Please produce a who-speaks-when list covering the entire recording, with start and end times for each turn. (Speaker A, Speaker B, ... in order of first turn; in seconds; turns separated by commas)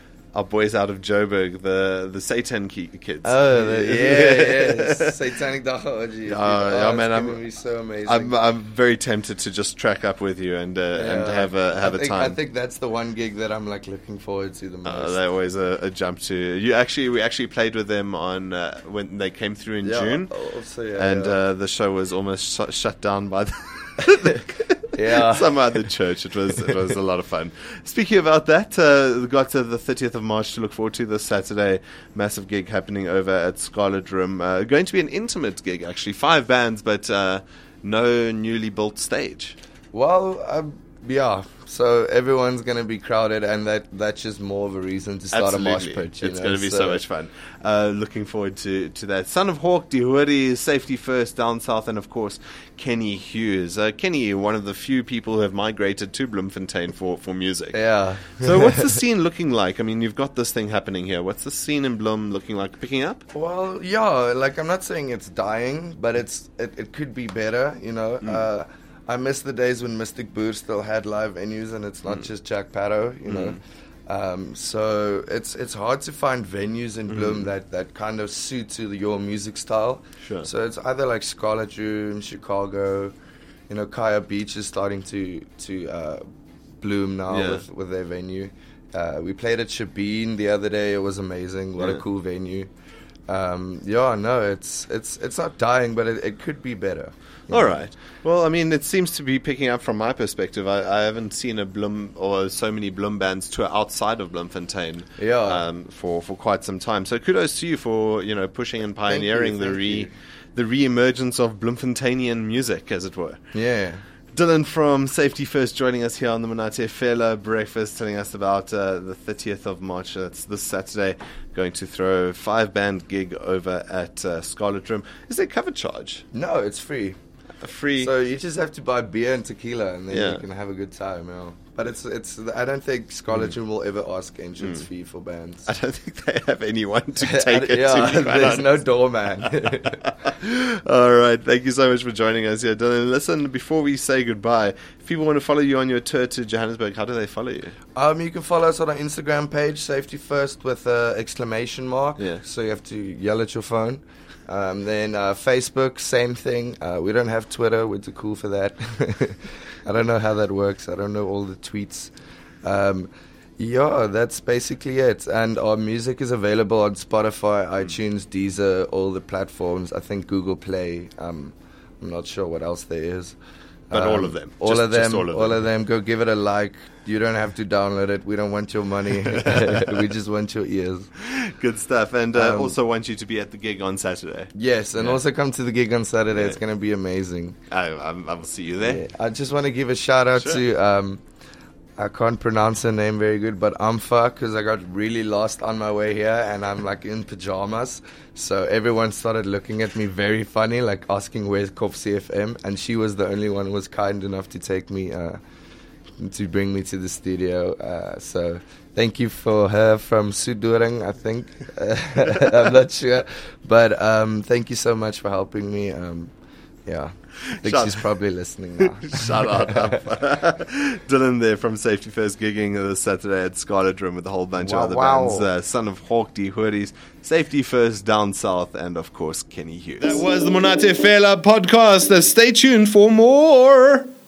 Speaker A: 0.3-5.2, Speaker B: 3.2-8.3, Speaker A: 6.2-7.4, Speaker A: 8.0-12.4, Speaker B: 10.9-15.2, Speaker A: 14.8-20.3, Speaker B: 19.8-21.4, Speaker A: 20.9-39.5, Speaker B: 24.9-25.9, Speaker B: 39.9-47.0, Speaker A: 45.3-57.8, Speaker B: 57.7-59.0, Speaker A: 58.4-63.2, Speaker B: 63.3-83.1, Speaker A: 73.2-73.6, Speaker A: 77.1-77.5, Speaker A: 80.2-80.5, Speaker B: 83.7-86.2, Speaker B: 86.8-92.7, Speaker A: 87.3-87.6, Speaker B: 93.3-97.8, Speaker A: 97.5-113.4, Speaker B: 105.2-105.6, Speaker B: 109.0-110.1, Speaker B: 113.5-114.0, Speaker A: 114.3-126.2, Speaker B: 126.3-127.2, Speaker A: 127.6-128.1, Speaker B: 128.0-135.7, Speaker A: 130.1-130.4, Speaker A: 135.7-138.8, Speaker B: 137.2-140.0, Speaker A: 139.4-147.8, Speaker B: 147.9-162.1, Speaker A: 152.2-152.4, Speaker B: 162.6-173.3, Speaker A: 173.9-175.6, Speaker B: 173.9-181.1, Speaker A: 179.3-180.0, Speaker A: 181.2-185.2, Speaker B: 182.3-182.7, Speaker B: 184.5-187.6, Speaker A: 186.3-186.6, Speaker A: 187.7-189.0, Speaker B: 188.8-191.2, Speaker A: 190.3-190.7, Speaker B: 192.0-205.4, Speaker B: 206.2-216.3, Speaker A: 212.4-212.7, Speaker B: 216.8-220.0, Speaker A: 217.4-218.0, Speaker A: 218.8-234.1, Speaker B: 224.6-225.5